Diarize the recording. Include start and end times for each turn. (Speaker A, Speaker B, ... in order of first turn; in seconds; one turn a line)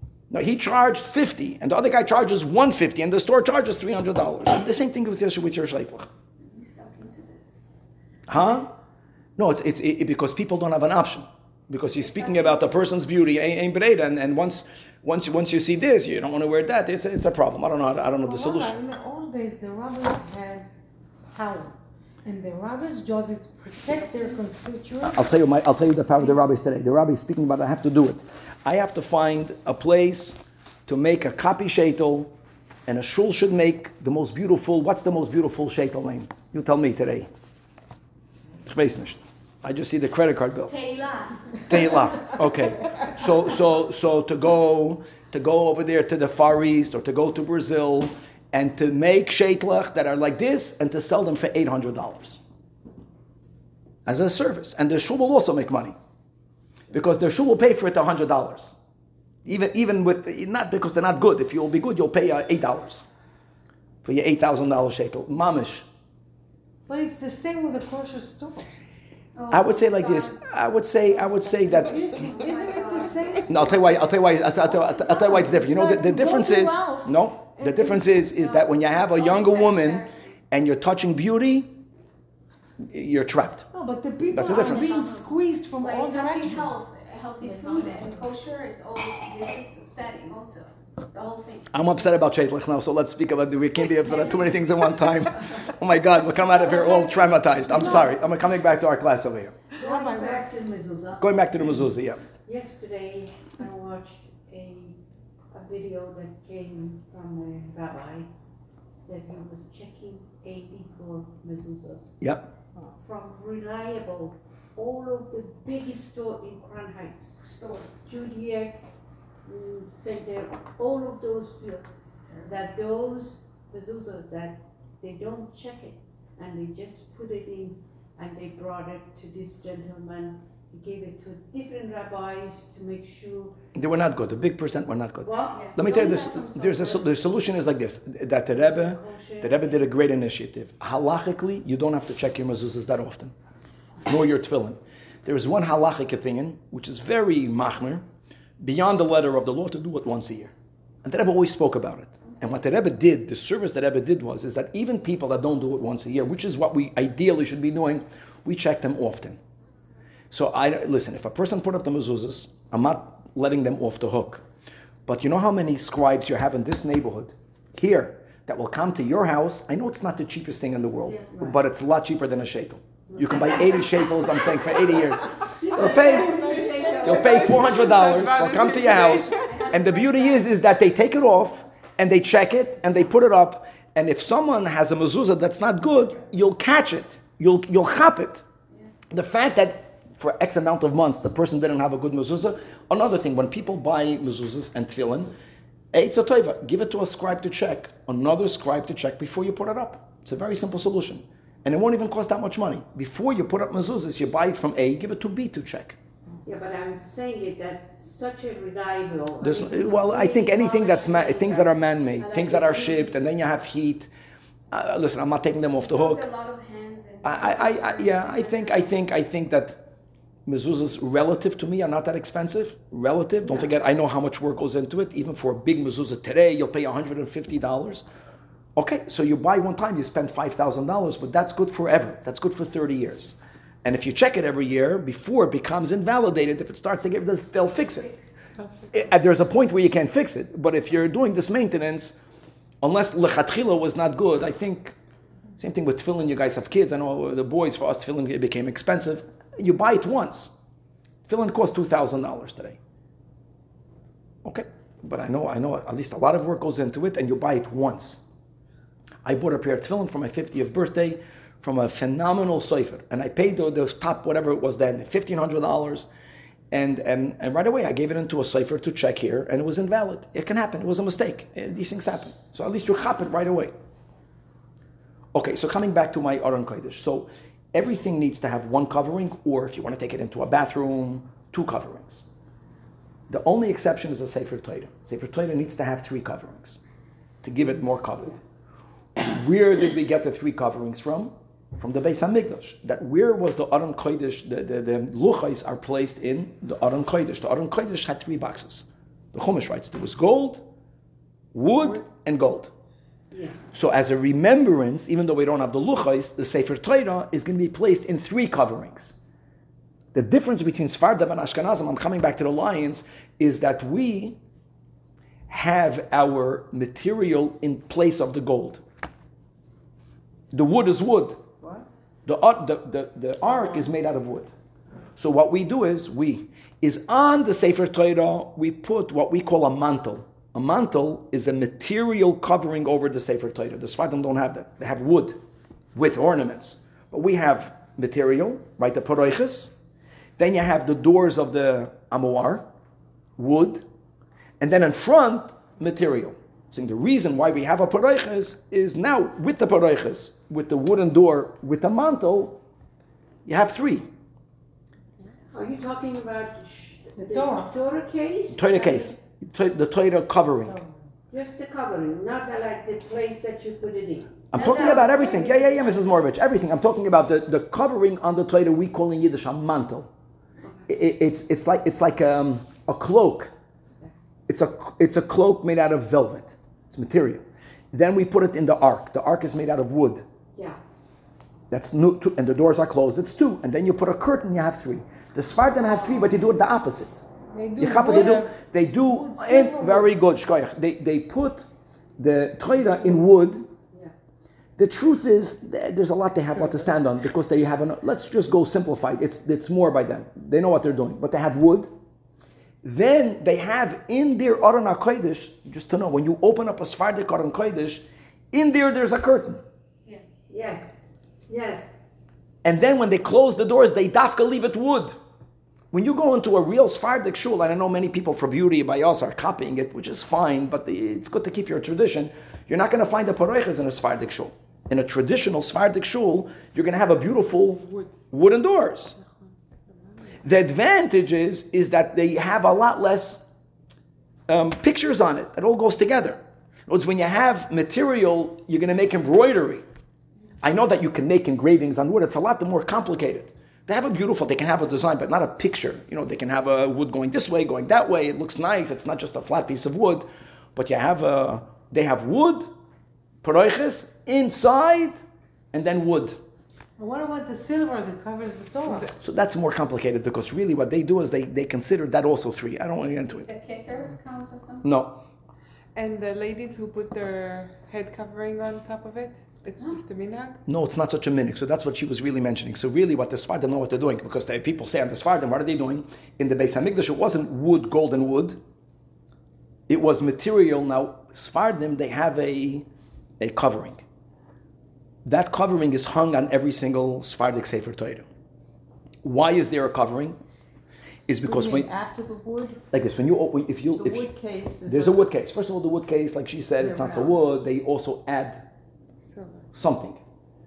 Speaker A: 0.3-6.1
Speaker B: 6.4-7.7
Speaker A: 8.3-8.7
Speaker A: 9.4-18.8
Speaker B: 12.0-12.8
Speaker C: 18.2-20.7
Speaker C: 21.3-25.3
Speaker A: 25.0-32.3
Speaker A: 32.9-37.3
Speaker A: 38.6-40.8
Speaker B: 40.7-42.3
Speaker A: 41.7-52.4
Speaker A: 54.1-56.0
Speaker A: 56.9-58.8
Speaker A: 59.5-63.1
Speaker A: 64.0-65.9
Speaker C: 66.9-68.8
Speaker B: 69.3-70.4
Speaker A: 69.5-72.1
Speaker C: 71.1-73.9
Speaker B: 71.9-73.5
Speaker A: 73.5-81.8
Speaker D: 75.0-76.9
Speaker C: 75.2-77.1
Speaker D: 77.6-78.0
Speaker B: 78.2-80.3
Speaker A: 82.8-83.7
Speaker C: 83.7-86.7
Speaker A: 84.3-84.9
Speaker B: 84.4-91.8
Speaker D: 87.5-88.2
Speaker A: 91.7-99.6
Speaker D: 96.6-98.2
Speaker D: 99.7-105.0
Speaker C: 99.8-100.5
Speaker A: 101.2-102.2
Speaker D: 105.5-108.3
Speaker D: 109.1-112.2
Speaker A: 112.2-112.5
Speaker D: 112.9-117.5
Speaker B: 117.4-118.1
Speaker D: 118.0-118.9
Speaker D: 119.5-133.5
Speaker A: 133.8-143.3
Speaker D: 135.2-136.8
Speaker B: 135.5-137.1
Speaker D: 138.5-139.7
Speaker A: 144.1-148.0
Speaker A: 148.6-150.5
Speaker A: 151.0-159.4
Speaker A: 160.3-164.4
Speaker A: 165.1-176.4
Speaker B: 171.0-171.3
Speaker D: 171.3-171.6
Speaker D: 173.1-174.4
Speaker D: 175.5-177.6
Speaker B: 175.6-180.4
Speaker A: 177.0-188.4
Speaker E: 177.1-179.6
Speaker A: 189.1-195.3
Speaker A: 195.9-206.0
Speaker D: 206.4-213.1
Speaker A: 209.4-214.1
Speaker A: 214.7-216.3
Speaker B: 215.8-219.0
Speaker A: 217.2-219.8
Speaker A: 220.5-228.1
Speaker A: 228.8-238.1
Speaker A: 238.9-242.2
Speaker A: 242.8-244.9
Speaker A: 245.6-250.5
Speaker A: 251.3-252.8
Speaker A: 254.4-258.2
Speaker A: 259.2-266.1
Speaker A: 266.7-273.7
Speaker A: 275.3-282.3
Speaker A: 283.3-286.8
Speaker A: 287.4-288.4
Speaker A: 289.2-300.6
Speaker A: 301.5-302.7
Speaker A: 303.7-309.2
Speaker A: 310.1-314.4
Speaker A: 315.5-318.8
Speaker A: 320.5-321.4
Speaker F: 321.6-321.9
Speaker A: 322.2-324.5
Speaker A: 325.2-335.4
Speaker A: 335.9-339.8
Speaker A: 340.4-342.7
Speaker A: 343.4-343.9
Speaker A: 344.6-352.6
Speaker A: 353.4-354.1
Speaker D: 355.5-359.1
Speaker C: 357.2-357.7
Speaker A: 358.5-360.8
Speaker C: 360.6-361.0
Speaker D: 361.3-365.8
Speaker A: 364.5-370.1
Speaker B: 364.6-366.2
Speaker A: 370.9-373.5
Speaker A: 374.5-380.2
Speaker A: 381.7-387.2
Speaker C: 387.5-390.1
Speaker A: 387.8-391.7
Speaker E: 388.0-388.4
Speaker A: 392.2-393.7
Speaker A: 394.8-401.9
Speaker A: 402.8-409.6
Speaker D: 410.5-410.9
Speaker D: 411.5-411.9
Speaker A: 412.6-415.2
Speaker A: 415.9-429.2
Speaker A: 430.4-433.5
Speaker A: 434.5-439.8
Speaker A: 440.6-452.7
Speaker A: 453.4-455.2
Speaker A: 455.7-456.4
Speaker C: 457.0-459.1
Speaker A: 458.9-463.5
Speaker B: 463.2-464.9
Speaker A: 464.8-465.2
Speaker E: 465.9-470.6
Speaker A: 470.7-478.6
Speaker A: 479.9-482.9
Speaker A: 483.4-484.0
Speaker A: 485.2-488.2
Speaker A: 489.2-490.4
Speaker A: 491.3-491.9
Speaker F: 491.4-492.8
Speaker A: 492.9-494.3
Speaker F: 493.9-495.2
Speaker A: 494.9-498.7
Speaker F: 496.8-497.4
Speaker E: 499.2-499.6
Speaker A: 499.7-500.2